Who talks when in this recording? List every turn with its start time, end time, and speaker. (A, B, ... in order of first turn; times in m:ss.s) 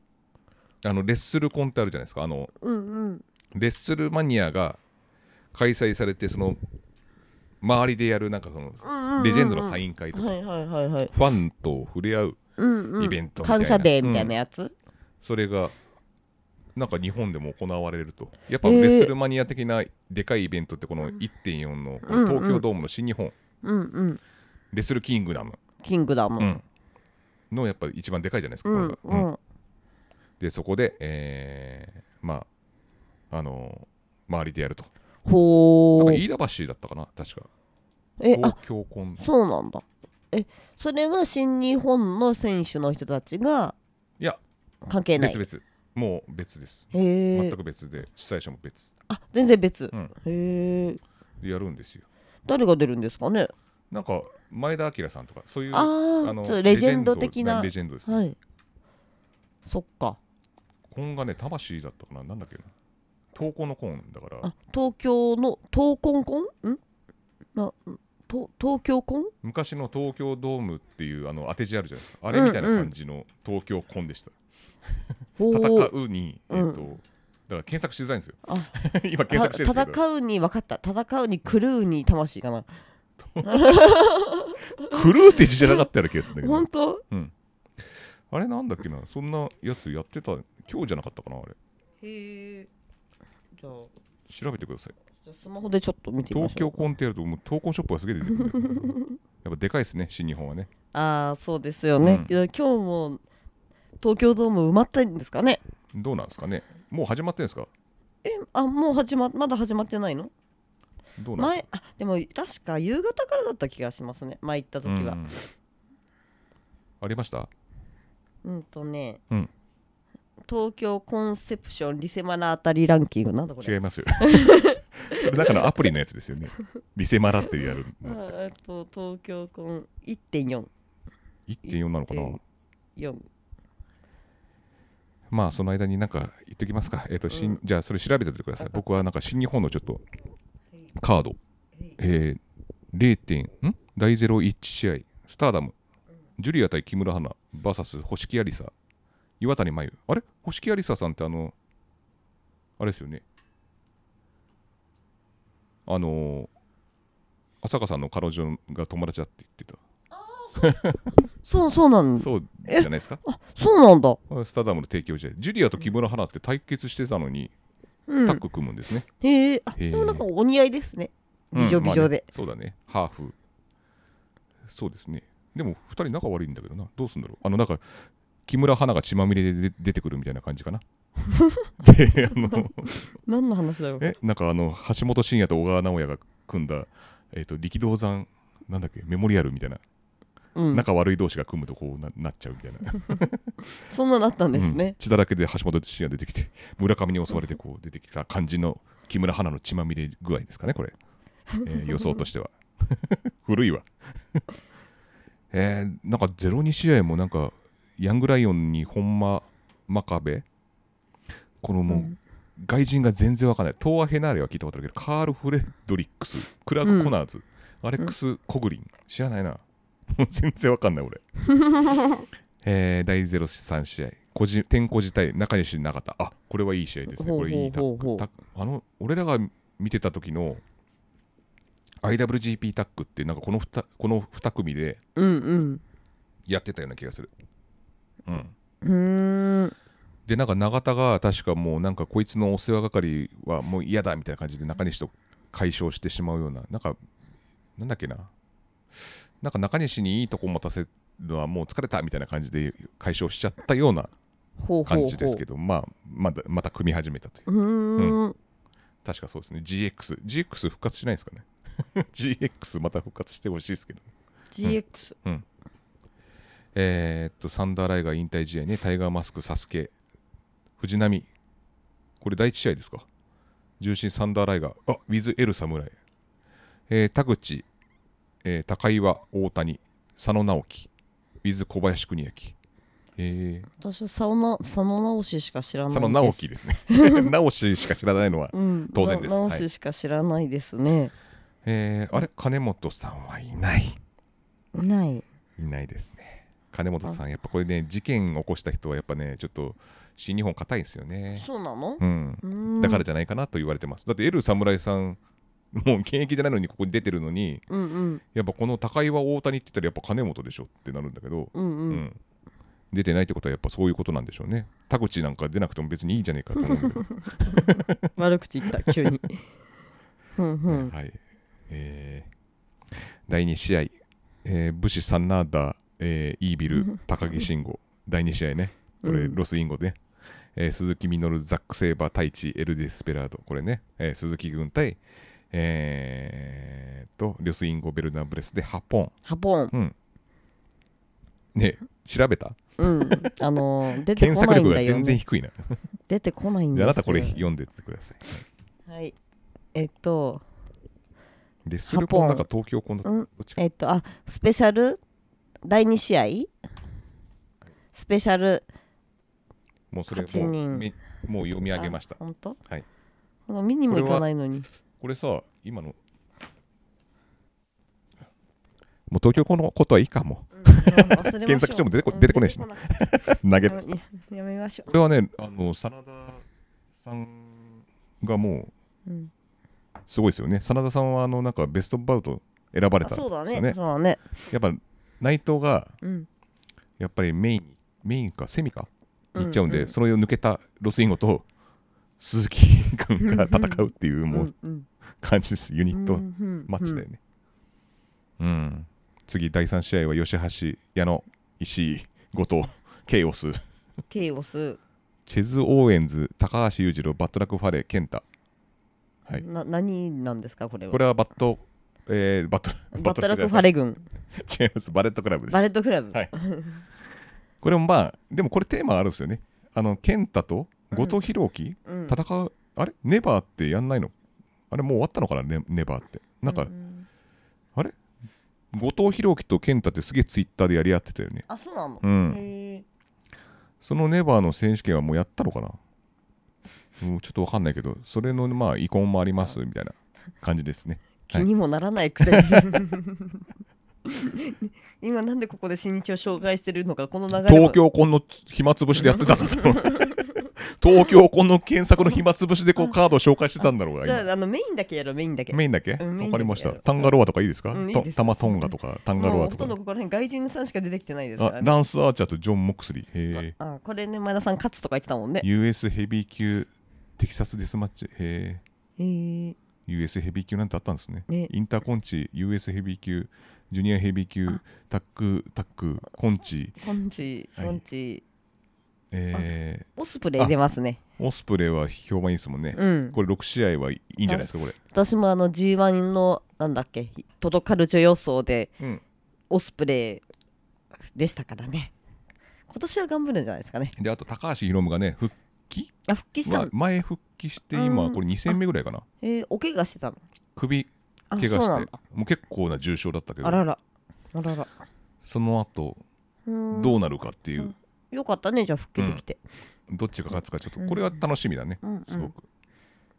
0:00.8-0:02.5 A
0:02.6-0:03.2 B
0:03.5-0:04.8 A
0:05.5-0:06.6 A
0:07.6-0:10.3 A
0:08.8-0:11.1 B
0:11.1-0:12.4 A
0:12.6-0:14.7 B
0:13.0-0:14.3 A
0:15.2-0:15.7 A
0:16.8-0:23.3 A
0:18.6-0:19.1 B
0:22.0-0:22.6 B
0:23.6-0:24.2 B
0:24.7-0:25.6 A
0:25.8-0:26.5 B
0:27.5-0:29.3 A
0:28.6-0:29.4 B
0:30.4-0:32.5 A
0:33.3-0:34.9 A
0:35.2-0:36.2 B
0:36.0-0:37.5 A
0:38.2-0:38.6 B
0:38.3-0:39.2 A
0:39.2-0:43.8 B
0:44.8-0:45.4 B
0:45.2-0:48.9 A
0:46.9-0:47.6 B
0:49.1-0:51.0 B
0:51.4-0:52.0 A
0:52.4-0:53.5 B
0:53.9-0:58.2 A
0:55.7-0:58.4 B
0:59.6-1:00.2 B
1:00.9-1:02.7 A
1:03.3-1:04.5 A
1:04.4-1:06.8 B
1:07.5-1:09.3 B
1:09.4-1:14.3 A
1:12.3-1:12.9 B
1:15.4-1:15.9 B
1:15.5-1:20.0 A
1:16.5-1:16.8 B
1:18.4-1:18.7 B
1:19.3-1:22.7 B
1:23.2-1:23.9 A
1:23.4-1:25.0 B
1:24.8-1:31.6 A
1:26.4-1:27.0 B
1:32.0-1:32.7 B
1:33.6-1:33.9 B
1:34.3-1:34.9 A
1:35.2-1:36.8 B
1:36.3-1:40.7 A
1:38.6-1:39.1 B
1:40.9-1:43.2 B
1:42.0-1:42.3 A
1:44.0-1:45.6 B
1:45.9-1:47.7 A
1:48.2-1:50.3 B
1:51.2-1:51.6 A
1:51.4-1:55.4 B
1:54.8-1:55.4 A
1:57.0-1:57.5 A
1:58.4-1:59.2 B
2:00.5-2:05.6 B
2:03.6-2:08.2 A
2:08.0-2:10.7 B
2:11.5-2:12.4 A
2:11.6-2:12.4 B
2:13.0-2:13.2 B
2:15.3-2:20.0 A
2:17.3-2:17.6 B
2:21.0-2:21.4 A
2:22.0-2:22.4 A
2:22.9-2:25.7 A
2:26.4-2:28.7 A
2:29.4-2:31.5 A
2:32.8-2:33.2 A
2:35.8-2:36.5 A
2:37.6-2:39.8 A
2:40.1-2:40.8 B
2:40.6-2:41.0 A
2:41.4-2:44.2 B
2:42.2-2:43.2 A
2:44.3-2:47.5 A
2:48.1-2:48.4 B
2:48.2-2:49.1 A
2:49.2-2:52.2 B
2:49.8-2:50.2 A
2:51.5-2:53.3 A
2:54.7-3:00.8 A
3:01.3-3:01.7 B
3:01.8-3:02.9 A
3:02.5-3:04.0 B
3:04.0-3:09.8 A
3:10.5-3:10.8 B
3:10.7-3:13.4 A
3:13.8-3:14.9 B
3:14.5-3:20.9 A
3:21.6-3:24.4 A
3:25.5-3:30.4 A
3:31.6-3:41.2 A
3:31.9-3:32.2 B
3:36.8-3:37.1 B
3:41.5-3:42.2 B
3:42.6-3:50.6 A
3:47.1-3:48.3 B
3:52.0-3:55.0 A
3:55.2-3:55.8 B
3:56.5-3:57.3 A
3:58.2-3:58.5 A
3:58.8-3:59.7 B
4:00.3-4:07.0 A
4:07.8-4:08.3 A
4:09.0-4:14.1 A
4:14.6-4:15.4 B
4:14.8-4:17.4 A
4:17.5-4:18.4 B
4:19.0-4:24.1 A
4:24.5-4:25.2 B
4:24.6-4:25.4 A
4:26.7-4:29.9 A
4:30.8-4:31.3 A
4:32.2-4:33.1 A
4:33.8-4:36.0 A
4:36.9-4:37.7 A
4:38.4-4:40.9 A
4:41.4-4:42.5 A
4:43.2-4:43.7 A
4:43.8-4:47.3 B
4:45.9-4:49.6 A
4:48.5-4:51.1 B
4:51.6-4:54.0 A
4:54.7-4:55.2 B
4:55.6-5:01.4 A
5:01.4-5:03.0 B
5:02.0-5:05.2 A
5:05.7-5:07.6 A
5:07.7-5:08.2 B
5:08.3-5:12.2 A
5:11.5-5:12.0 B
5:12.9-5:18.1 A
5:16.7-5:19.4 B
5:20.4-5:20.9 B
5:20.7-5:22.3 A
5:22.9-5:30.0 A
5:29.0-5:29.4 B
5:30.5-5:39.1 A
5:39.2-5:39.7 B
5:41.5-5:43.3 A
5:42.8-5:45.2 B
5:44.1-5:45.8 A
5:46.1-5:47.4 B
5:46.7-5:48.4 A
5:48.9-5:49.1 B
5:49.7-5:50.4 B
5:51.6-5:53.6 A
5:51.9-5:52.4 B
5:53.0-5:55.0 B
5:55.6-5:56.5 B
5:57.9-5:58.6 B
5:59.9-6:02.8 A
6:00.1-6:00.9 B
6:01.7-6:02.6 B
6:03.5-6:04.7 B
6:03.9-6:04.2 A
6:05.0-6:06.0 A
6:09.1-6:13.8 A
6:10.5-6:12.9 B
6:13.6-6:14.9 B
6:14.9-6:16.4 A
6:17.0-6:18.7 A
6:19.0-6:19.3 B
6:20.1-6:23.8 A
6:23.0-6:24.3 B
6:24.5-6:26.0 A
6:26.0-6:26.3 B
6:27.0-6:31.4 A
6:29.3-6:29.9 B
6:32.2-6:34.5 A
6:33.2-6:34.9 B
6:35.2-6:37.2 A
6:35.9-6:37.0 B
6:38.4-6:43.6 A
6:44.1-6:44.8 B
6:45.2-6:48.2 A
6:49.3-6:51.0 B
6:50.9-6:53.7 A
6:52.9-6:54.1 B
6:54.3-6:56.3 A
6:55.5-6:56.8 B
6:57.6-7:04.1 A
7:00.9-7:01.2 B
7:01.8-7:02.2 B
7:04.7-7:06.7 A
7:06.5-7:07.0 B
7:08.7-7:11.4 A
7:11.5-7:12.8 B
7:12.0-7:12.4 A
7:13.8-7:15.8 A
7:17.0-7:21.5 A
7:21.3-7:23.4 B
7:22.2-7:22.8 A
7:24.0-7:27.8 B
7:27.4-7:34.2 A
7:29.0-7:30.2 B
7:33.6-7:37.1 B
7:35.5-7:39.7 A
7:37.7-7:41.8 B
7:41.4-7:43.5 A
7:43.5-7:45.5 B
7:45.4-7:48.6 A
7:49.0-7:49.6 B
7:49.9-7:56.8 A
7:56.8-7:58.2 B
7:59.1-8:00.5 A
8:00.0-8:01.0 B
8:01.2-8:04.8 A
8:02.7-8:03.2 B
8:04.3-8:08.7 B
8:09.5-8:10.2 B
8:11.1-8:11.9 B
8:12.7-8:13.9 B
8:14.0-8:15.9 A
8:16.1-8:16.7 B
8:16.4-8:19.0 A
8:17.7-8:18.6 B
8:19.2-8:20.2 B
8:20.6-8:23.6 A
8:21.3-8:22.0 B
8:23.4-8:23.8 B
8:24.3-8:24.7 B
8:25.2-8:26.0 A
8:26.5-8:27.0 B
8:26.7-8:27.7 A
8:27.6-8:29.4 B
8:29.9-8:32.4 A
8:30.8-8:31.1 B
8:31.8-8:32.3 B